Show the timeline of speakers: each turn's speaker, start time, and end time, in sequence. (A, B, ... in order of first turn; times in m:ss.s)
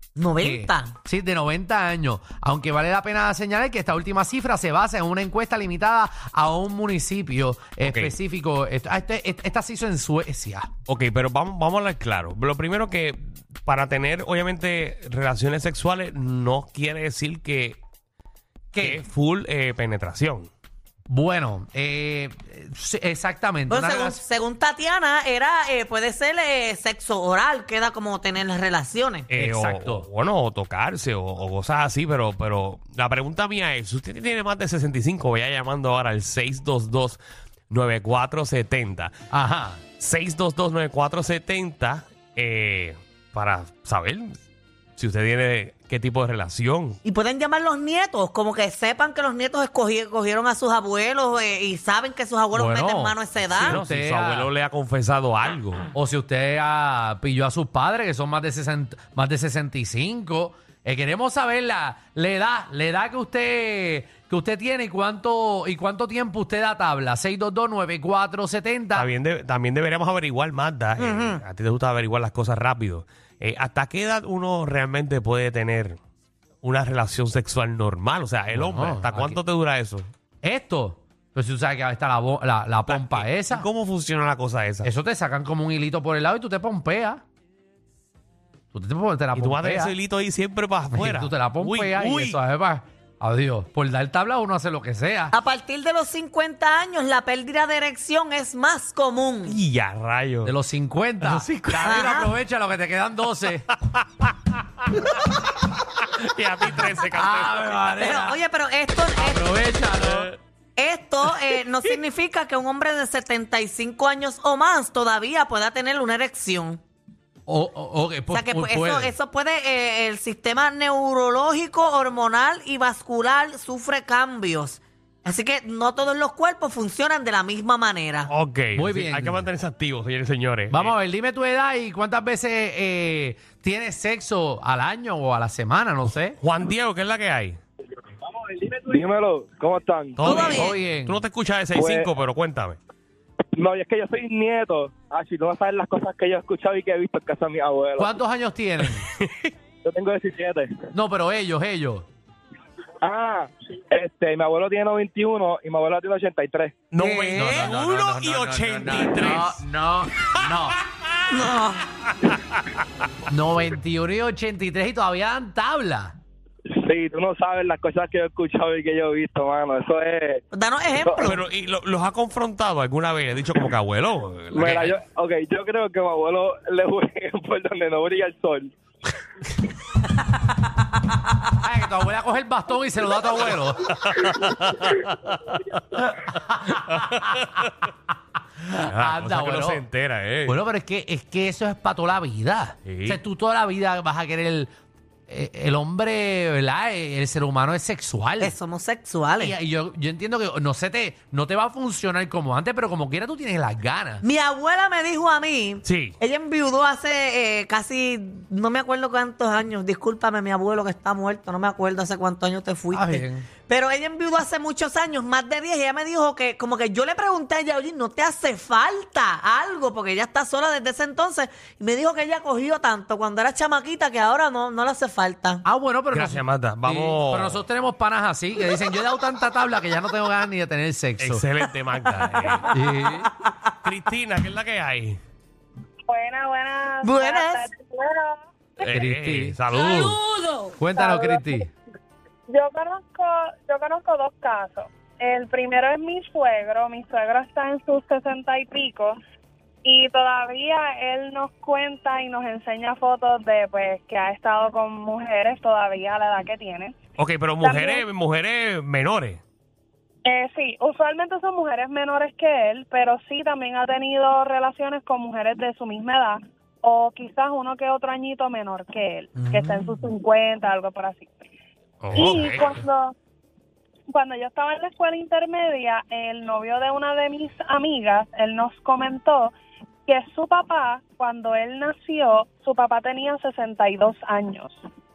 0:00.2-0:00.9 A
0:00.4-0:10.7 B
0:07.8-0:08.1 C
0:10.9-0:17.8 C
0:18.7-0:19.0 B
0:18.8-0:20.5 C
0:21.1-0:24.2 B
0:23.7-0:29.3 A
0:29.3-0:37.2 C
0:29.3-0:30.1 B
0:37.7-0:39.1 C
0:39.3-0:39.8 B
0:40.0-0:44.4 C
0:45.0-0:47.0 C
0:47.0-0:53.8 A
0:52.5-0:54.5 B
0:53.5-0:55.8 C
0:55.9-1:09.1 B
1:08.9-1:16.0 C
1:11.0-1:11.4 A
1:16.6-1:20.1 C
1:18.5-1:19.4 B
1:20.4-1:23.7 B
1:22.9-1:24.9 C
1:24.8-1:27.2 B
1:28.7-1:30.0 B
1:29.3-1:32.4 C
1:30.9-1:35.3 B
1:35.3-1:39.6 A
1:39.4-1:40.5 C
1:40.4-1:43.7 B
1:41.2-1:42.1 C
1:41.8-1:42.3 A
1:46.0-1:48.0 C
1:46.7-1:48.4 B
1:48.0-1:49.4 A
1:49.1-1:50.3 B
1:50.0-1:50.4 C
1:50.8-1:56.8 A
1:57.5-1:59.1 B
1:58.3-2:08.3 A
2:08.3-2:10.9 C
2:08.7-2:09.5 B
2:10.7-2:16.4 B
2:16.4-2:17.6 C
2:18.3-2:20.2 D
2:20.2-2:22.8 C
2:20.2-2:20.7 A
2:20.3-2:21.2 B
2:21.7-2:22.1 D
2:23.6-2:28.1 D
2:28.0-2:29.0 B
2:29.1-2:29.5 C
2:29.8-2:30.7 D
2:30.9-2:32.0 B
2:33.0-2:36.8 D
2:36.9-2:40.5 C
2:37.0-2:40.8 B
2:41.3-2:41.8 A
2:43.3-2:46.1 B
2:46.7-2:50.4 D
2:50.5-2:51.4 A
2:51.0-2:51.2 D
2:51.2-2:54.9 C
2:54.5-2:58.7 D
3:01.6-3:03.9 B
3:03.8-3:05.6 C
3:06.0-3:07.4 B
3:06.7-3:07.8 C
3:08.6-3:09.9 B
3:08.9-3:10.6 C
3:10.4-3:14.7 B
3:12.8-3:13.2 C
3:15.3-3:18.6 B
3:18.4-3:19.5 A
3:19.4-3:24.2 B
3:24.2-3:45.6 A
3:25.8-3:26.2 C
3:32.9-3:33.5 B
3:45.6-3:51.4 B
3:46.1-3:47.6 C
3:51.2-3:52.7 C
3:52.7-3:53.3 B
3:53.0-3:53.7 A
3:53.8-3:55.2 C
3:56.1-3:58.4 E
3:57.0-3:57.7 A
3:58.8-4:00.2 C
3:58.9-3:59.6 B
4:00.8-4:01.7 B
4:00.9-4:01.6 E
4:02.5-4:09.2 E
4:09.8-4:17.0 E
4:17.2-4:19.4 C
4:17.6-4:18.0 E
4:20.2-4:31.3 E
4:29.4-4:29.9 A
4:32.0-4:32.8 C
4:32.1-4:33.1 E
4:34.1-4:39.5 E
4:40.0-4:44.8 E